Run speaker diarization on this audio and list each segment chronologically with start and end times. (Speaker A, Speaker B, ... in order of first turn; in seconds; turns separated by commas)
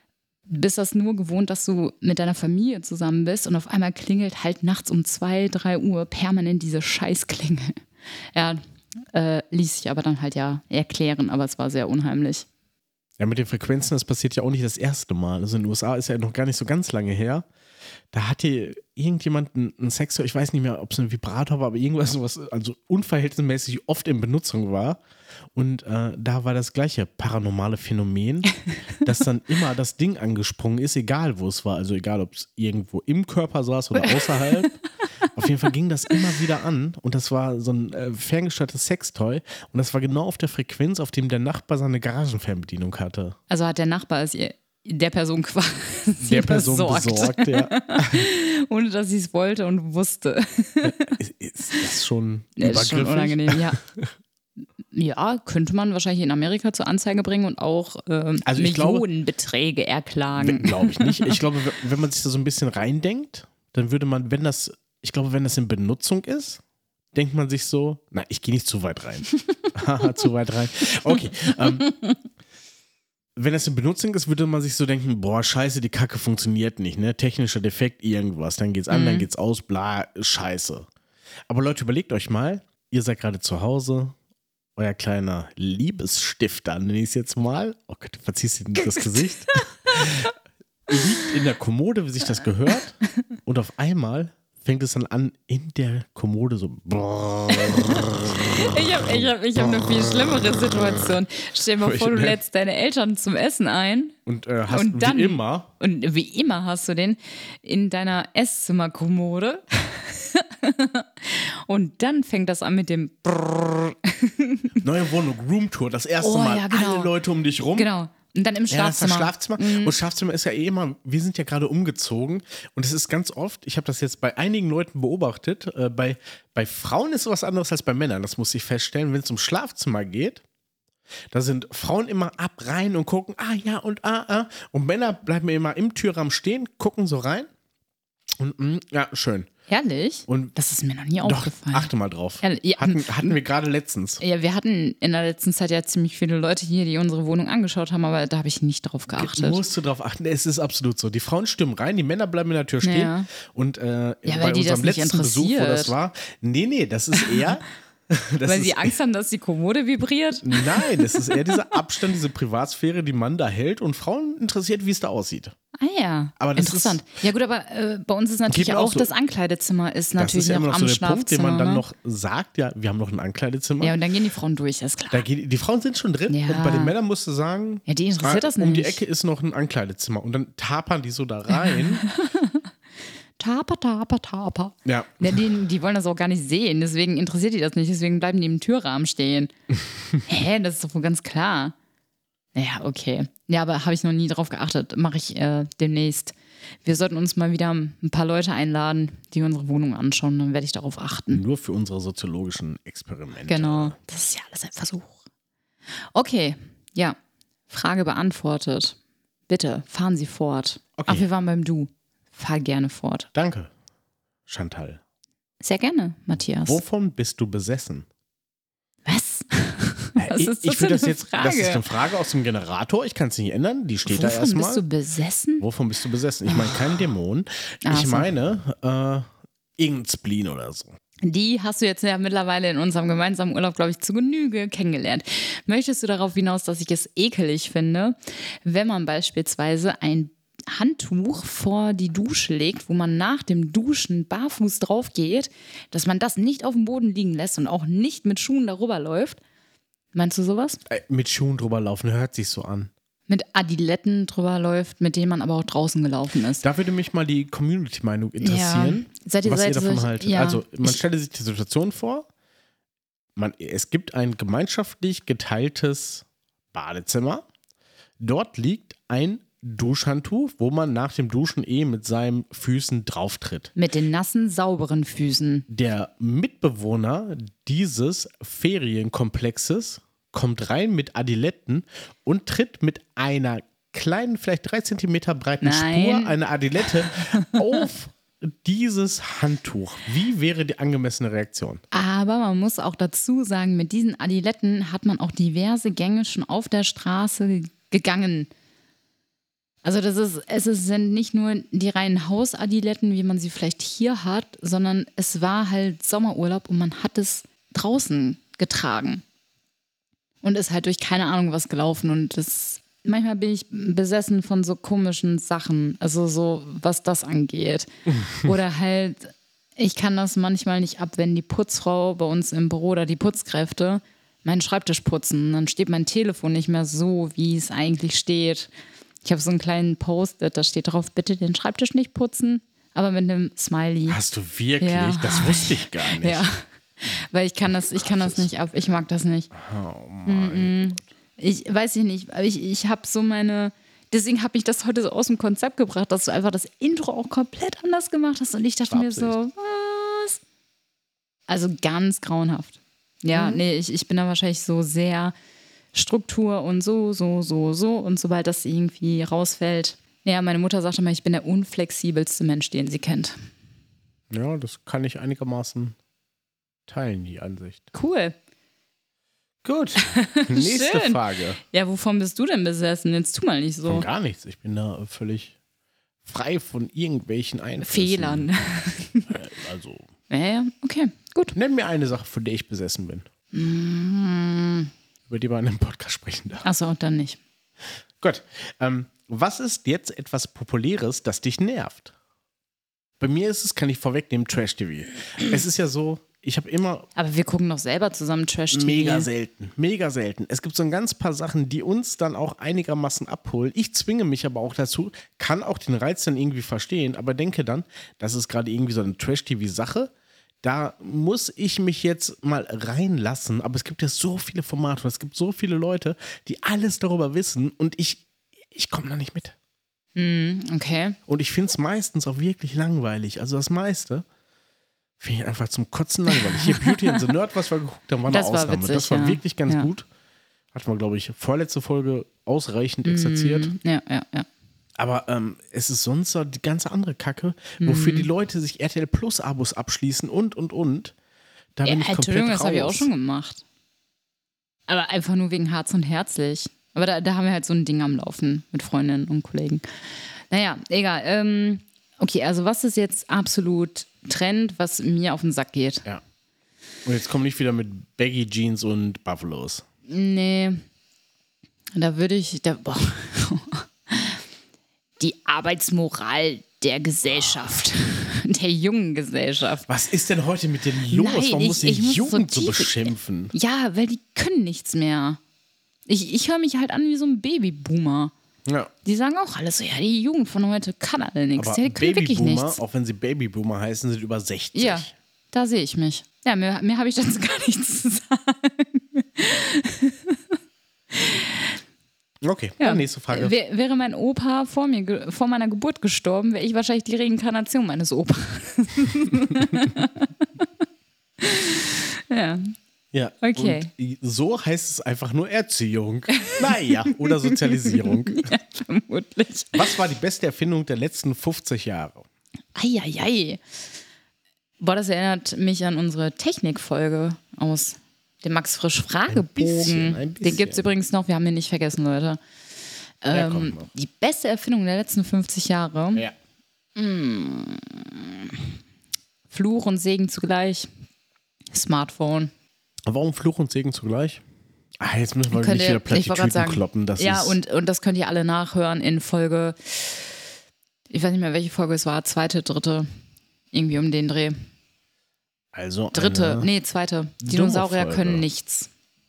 Speaker A: 0.5-7.8, Speaker A: 8.3-8.6, Speaker A: 9.1-12.5, Speaker B: 13.2-17.5, Speaker B: 18.1-25.0, Speaker B: 25.6-34.8, Speaker B: 35.3-43.4, Speaker A: 43.5-51.2, Speaker B: 46.2-48.3, Speaker B: 50.8-54.1, Speaker A: 52.6-53.8, Speaker A: 54.9-61.4, Speaker B: 58.5-59.0, Speaker B: 60.4-66.6, Speaker B: 67.1-71.9, Speaker A: 71.9-72.1, Speaker B: 73.4-80.9, Speaker A: 78.9-79.3, Speaker B: 81.5-84.2, Speaker B: 84.8-90.3, Speaker A: 88.8-90.2, Speaker B: 90.9-98.1, Speaker A: 97.5-104.2, Speaker B: 101.8-102.4, Speaker B: 104.3-105.7, Speaker A: 104.7-114.8, Speaker B: 114.8-117.9, Speaker A: 116.2-117.1, Speaker A: 117.8-120.0, Speaker B: 118.7-130.4, Speaker B: 131.3-137.5, Speaker B: 138.4-139.5, Speaker A: 139.7-141.9, Speaker B: 140.3-140.5, Speaker B: 141.2-144.2, Speaker A: 142.4-143.4, Speaker A: 144.2-149.6, Speaker B: 149.1-158.9, Speaker A: 152.8-153.3, Speaker A: 154.2-155.9, Speaker A: 157.2-157.5, Speaker A: 158.4-161.6, Speaker B: 160.4-165.6, Speaker A: 165.8-171.8, Speaker B: 166.4-167.0, Speaker B: 168.5-169.1, Speaker B: 170.2-173.9, Speaker A: 173.8-175.3, Speaker B: 175.1-182.1, Speaker A: 176.3-177.0, Speaker A: 177.9-179.0, Speaker A: 181.5-182.7, Speaker A: 183.4-189.5, Speaker B: 184.8-185.5, Speaker A: 190.3-191.8, Speaker A: 192.6-201.4, Speaker B: 201.3-204.0, Speaker A: 203.5-205.2, Speaker A: 206.1-207.2, Speaker A: 207.7-209.0, Speaker A: 209.5-213.3, Speaker B: 211.0-211.3, Speaker B: 213.3-213.7, Speaker B: 214.5-215.0, Speaker A: 215.6-216.8, Speaker B: 216.7-218.1, Speaker A: 219.1-221.8, Speaker B: 220.2-224.8, Speaker A: 224.1-225.7, Speaker B: 225.6-229.3, Speaker A: 226.5-227.0, Speaker A: 227.8-228.3, Speaker B: 229.8-231.0, Speaker A: 231.2-249.4, Speaker A: 250.1-250.8, Speaker B: 250.9-252.9, Speaker A: 253.3-256.6, Speaker B: 256.6-262.3, Speaker A: 258.4-261.0, Speaker B: 263.4-267.4, Speaker B: 268.2-273.7, Speaker A: 273.8-275.7, Speaker B: 275.7-291.8, Speaker A: 285.6-286.4, Speaker A: 287.2-287.6, Speaker A: 291.9-298.5, Speaker A: 299.8-309.2, Speaker A: 310.4-328.7, Speaker A: 329.2-334.2, Speaker B: 334.1-336.5, Speaker A: 334.8-339.5, Speaker B: 337.9-338.4, Speaker B: 339.5-341.0, Speaker A: 340.2-350.4, Speaker B: 348.9-349.4, Speaker A: 351.5-355.3, Speaker A: 355.9-363.4, Speaker B: 364.3-366.0, Speaker B: 366.9-367.9, Speaker A: 367.9-368.4, Speaker B: 369.6-371.6, Speaker A: 370.0-374.1, Speaker B: 373.9-375.6, Speaker B: 376.2-378.5, Speaker A: 377.8-379.3, Speaker B: 379.3-380.1, Speaker A: 380.3-381.6, Speaker B: 381.5-383.3, Speaker A: 383.5-384.9, Speaker B: 385.3-386.7, Speaker A: 386.6-387.4, Speaker B: 388.2-392.1, Speaker B: 393.2-397.1, Speaker A: 397.2-399.3, Speaker B: 398.7-410.1, Speaker B: 410.6-419.6, Speaker A: 420.1-421.2, Speaker B: 421.3-424.2, Speaker B: 425.2-430.1, Speaker A: 426.3-427.2, Speaker A: 428.3-429.9, Speaker B: 430.7-433.7, Speaker A: 433.1-434.5, Speaker B: 435.0-441.1, Speaker A: 437.8-438.3, Speaker B: 441.8-443.1, Speaker A: 441.9-443.6, Speaker A: 444.9-456.0, Speaker B: 457.1-459.9, Speaker A: 460.1-460.8, Speaker A: 461.9-464.4, Speaker A: 465.2-469.9, Speaker B: 469.9-473.5, Speaker A: 471.1-475.4, Speaker A: 476.1-478.3, Speaker A: 479.1-482.8, Speaker B: 481.6-485.1, Speaker A: 484.7-490.6, Speaker A: 491.1-491.8, Speaker B: 492.4-493.5, Speaker A: 492.8-500.7, Speaker A: 501.4-502.7, Speaker B: 503.1-508.6, Speaker A: 503.4-503.9, Speaker A: 506.4-509.9, Speaker B: 509.8-512.3, Speaker A: 512.8-513.6, Speaker A: 514.8-522.4, Speaker B: 519.3-520.9, Speaker A: 523.2-526.2, Speaker B: 523.3-523.9, Speaker A: 527.0-528.7, Speaker A: 529.5-530.9, Speaker A: 531.7-532.5, Speaker B: 533.1-534.4, Speaker B: 535.0-537.6, Speaker A: 535.5-540.4, Speaker A: 541.1-543.1, Speaker A: 543.7-544.6, Speaker B: 545.7-546.7, Speaker A: 546.1-548.9, Speaker B: 547.4-548.5